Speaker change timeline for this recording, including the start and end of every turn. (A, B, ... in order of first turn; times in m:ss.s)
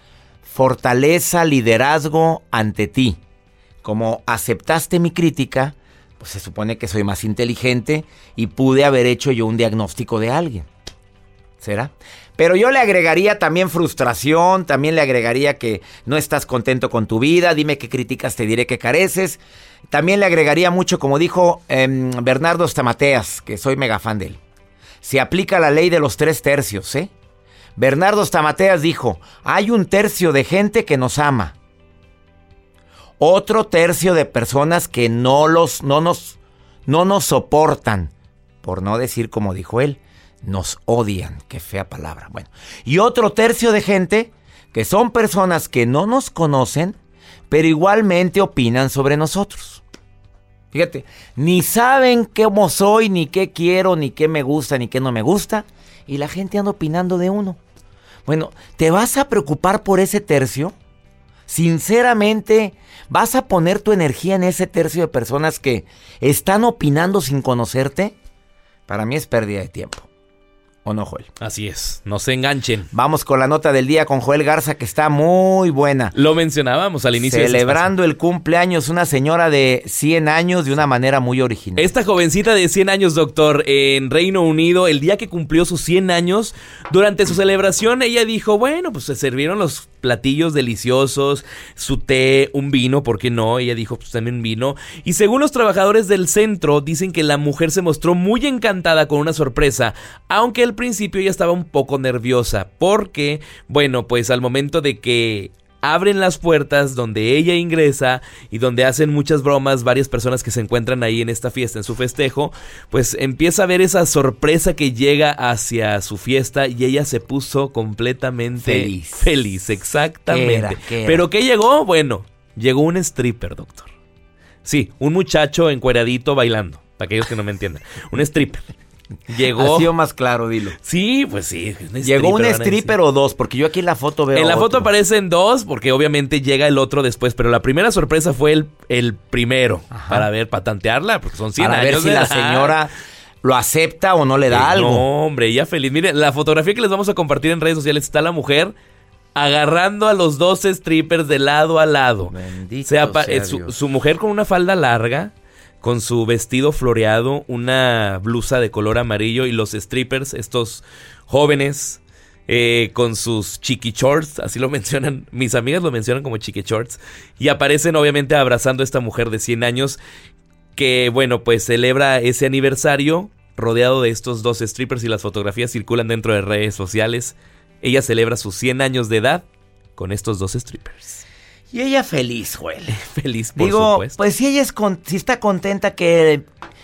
0:00.4-0:03.2 A
0:03.8-0:10.7 A
0:11.6-0:24.4 A
0:25.0-0:27.1 A
0:27.8-0:31.5 A
0:33.2-0:38.1 A
0:38.6-0:47.0 A
0:47.5-0:49.8 A
0:50.7-0:57.6 A
0:58.2-1:00.7 A
1:01.5-1:08.1 A
1:08.9-1:10.1 A
1:10.8-1:11.3 A
1:11.4-1:12.9 B
1:12.9-1:16.1 A
1:16.1-1:17.9 B
1:17.2-1:21.9 A
1:21.8-2:03.9 B
1:58.6-1:59.3 A
2:00.3-2:01.2 A
2:04.6-2:08.6 B
2:09.3-2:09.9 B
2:09.5-2:10.8 A
2:10.8-2:12.9 B
2:12.0-2:14.9 A
2:14.3-2:22.8 B
2:19.9-2:20.3 A
2:21.6-2:22.9 A
2:23.4-2:25.0 A
2:24.5-2:28.7 B
2:29.3-2:32.3 B
2:32.3-2:33.7 A
2:32.8-2:50.0 B
2:50.8-2:59.4 B
3:00.0-3:01.2 B
3:01.7-3:03.0 A
3:02.9-3:04.2 B
3:03.6-3:06.4 A